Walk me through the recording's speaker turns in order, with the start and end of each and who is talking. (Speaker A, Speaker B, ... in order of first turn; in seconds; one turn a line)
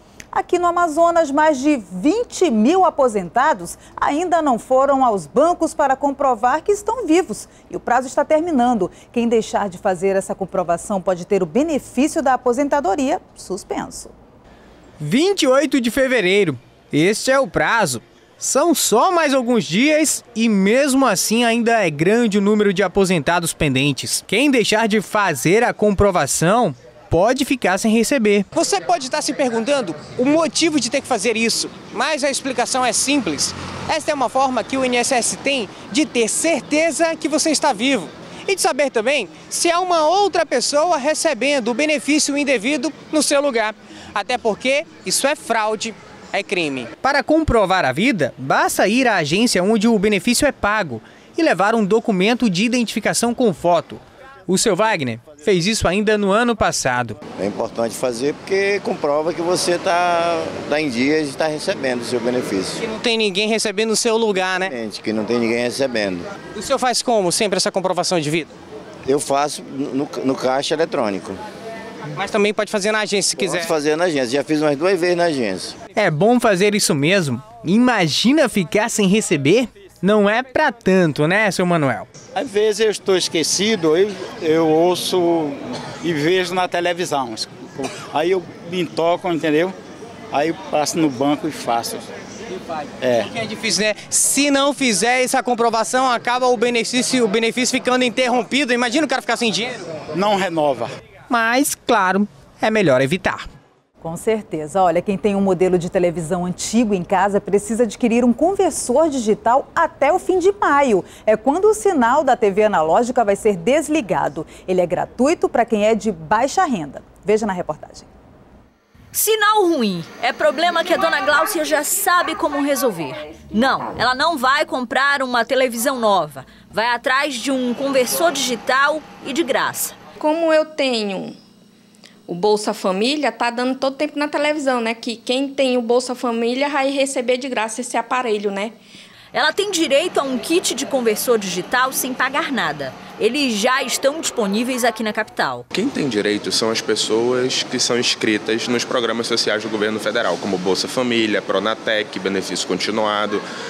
Speaker A: 0.3-14.1
Speaker B: 15.0-28.5
Speaker C: 28.5-47.0
Speaker B: 47.0-57.2
Speaker D: 57.4-62.8
Speaker C: 62.8-64.7
Speaker D: 64.4-66.3
Speaker C: 66.5-68.5
Speaker D: 69.1-71.4
Speaker C: 72.2-73.7
Speaker D: 73.4-75.8
Speaker B: 76.0-82.1
Speaker E: 82.3-89.8
Speaker E: 90.3-92.1
Speaker E: 93.0-93.3
Speaker C: 93.3-99.9
Speaker E: 100.1-100.9
Speaker B: 101.3-103.4
Speaker A: 104.0-118.1
Speaker F: 119.1-130.0
Speaker G: 130.2-131.4
Speaker G: 132.3-138.8
Speaker F: 139.3-145.7
Speaker H: 145.7-153.4